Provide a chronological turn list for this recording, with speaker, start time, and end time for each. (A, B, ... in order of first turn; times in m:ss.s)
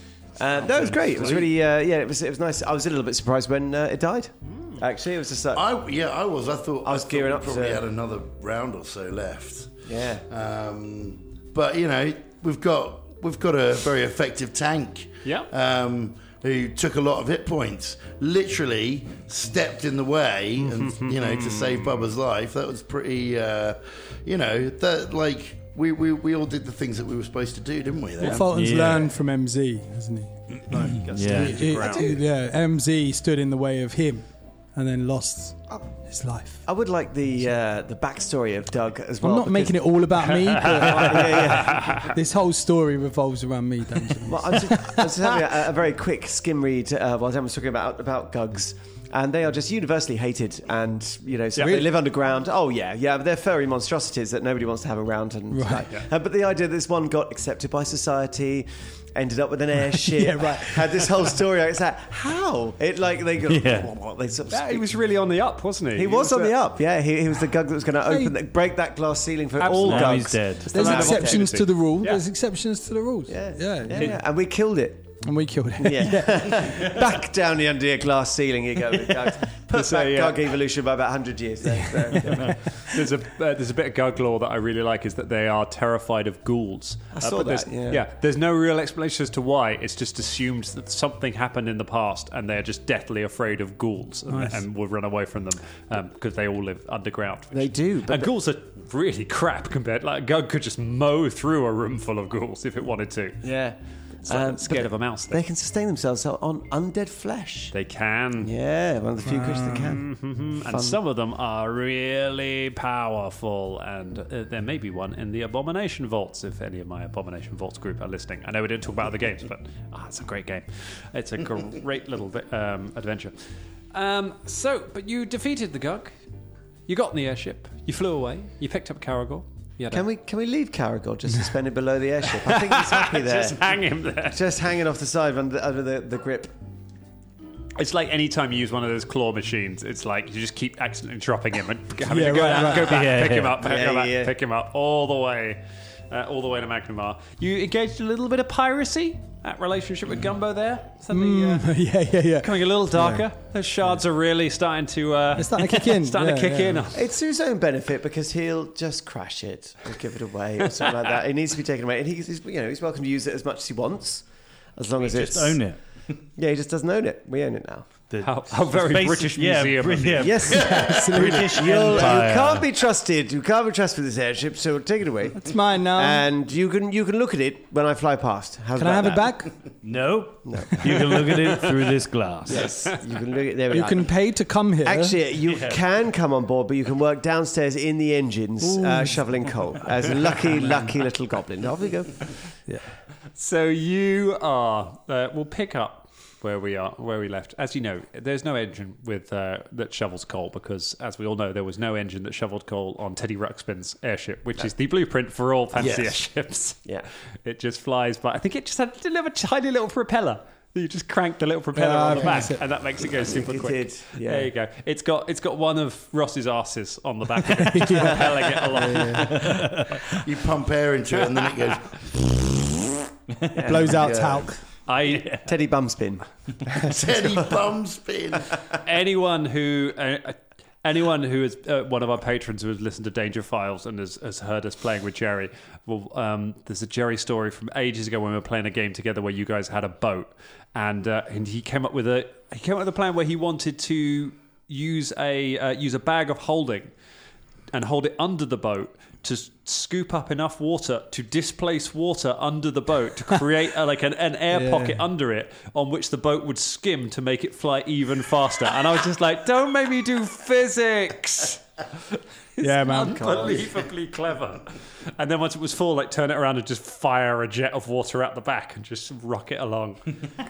0:00.4-0:05.6 A
0:05.5-0:09.7 B
0:06.8-0:07.8 A
0:09.9-0:10.2 A
0:10.3-0:28.5 B
0:20.6-0:22.0 C
0:28.2-0:30.3 D
0:28.4-0:29.1 E
0:30.7-0:31.3 B
0:30.7-0:31.7 E
0:30.8-0:32.2 C
0:31.4-0:36.6 D
0:31.6-0:32.2 A
0:36.7-0:39.8 A
0:39.2-0:45.1 D
0:40.4-0:42.1 C
0:40.7-0:42.1 A
0:44.2-1:04.9 A
0:51.6-0:51.8 C
0:51.6-0:51.9 D
0:55.5-0:55.9 D
1:00.0-1:01.1 D
1:03.5-1:03.9 E
1:04.5-1:06.6 C
1:06.0-1:11.6 A
1:08.0-1:08.4 D
1:09.6-1:12.2 C
1:09.7-1:10.9 E
1:10.7-1:14.1 D
1:13.3-1:15.2 A
1:15.2-1:16.7 D
1:15.8-1:22.9 A
1:19.7-1:20.5 C
1:22.0-1:43.4 C
1:27.2-1:28.0 A
1:37.5-1:38.3 A
1:43.4-1:47.7 A
1:44.2-1:45.4 C
1:47.7-1:48.5 C
1:48.4-1:51.0 A
1:49.2-1:50.0 D
1:49.7-2:03.4 C
2:03.9-2:06.1 C
2:06.9-2:10.0 C
2:09.9-2:13.6 A
2:12.5-2:14.4 C
2:14.3-2:16.5 A
2:17.8-2:31.7 C
2:22.0-2:23.0 D
2:22.6-2:23.6 E
2:23.6-2:24.3 A
2:31.1-2:33.2 D
2:32.4-2:37.1 C
2:35.4-2:36.8 D
2:36.9-2:47.9 A
2:45.0-2:46.1 E
2:48.1-2:52.7 E
2:48.2-2:50.4 C
2:50.2-2:59.6 A
2:50.5-2:51.7 D
2:55.4-2:56.3 D
2:58.8-2:59.5 D
2:59.8-3:02.7 E
3:00.4-3:01.7 A
3:02.5-3:04.2 A
3:03.7-3:05.2 D
3:04.8-3:12.3 A
3:05.4-3:05.8 E
3:08.6-3:09.2 D
3:13.4-3:26.8 C
3:25.8-3:26.2 B
3:27.4-3:39.6 C
3:31.7-3:32.6 D
3:33.2-3:34.5 A
3:37.5-3:39.4 D
3:39.3-3:40.0 E
3:40.1-3:42.2 B
3:43.5-3:44.3 A
3:43.7-3:44.6 D
3:43.9-3:44.5 B
3:44.9-3:45.5 C
3:45.3-3:47.6 A
3:46.8-3:48.5 B
3:48.8-4:06.9 C
4:07.7-4:30.2 C
4:14.5-4:15.0 D
4:22.6-4:23.5 D
4:22.9-4:23.8 A